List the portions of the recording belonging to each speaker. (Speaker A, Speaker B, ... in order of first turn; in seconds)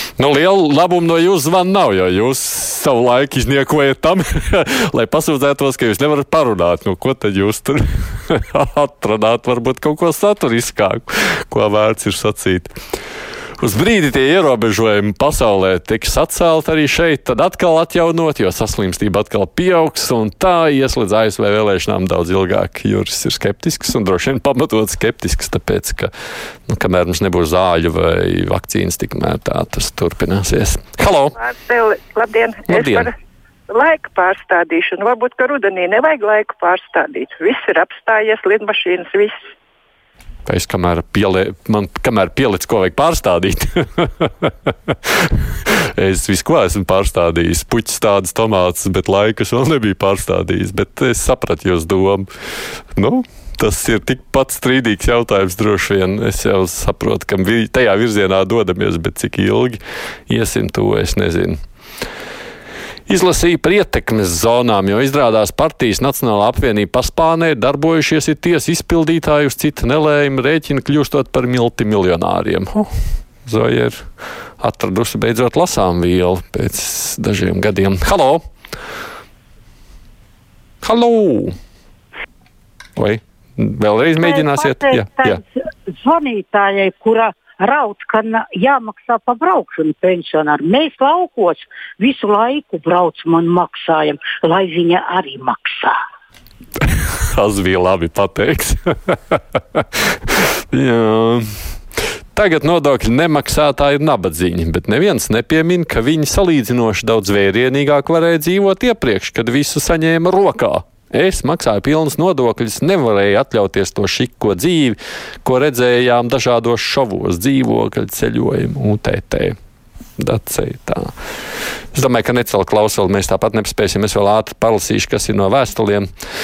Speaker A: 0.2-12.7, 13.6-26.1, 26.7-31.3, 32.7-33.1, 40.5-45.3, 46.0-52.3, 53.0-61.6, 63.1-72.9, 73.5-74.0, 74.6-78.4, 80.8-81.5, 83.0-85.4, 97.3-101.5, 102.3-119.6, 120.2-121.1, 121.9-126.1
Speaker B: 31.4-33.1, 33.7-39.4
Speaker C: 84.2-96.0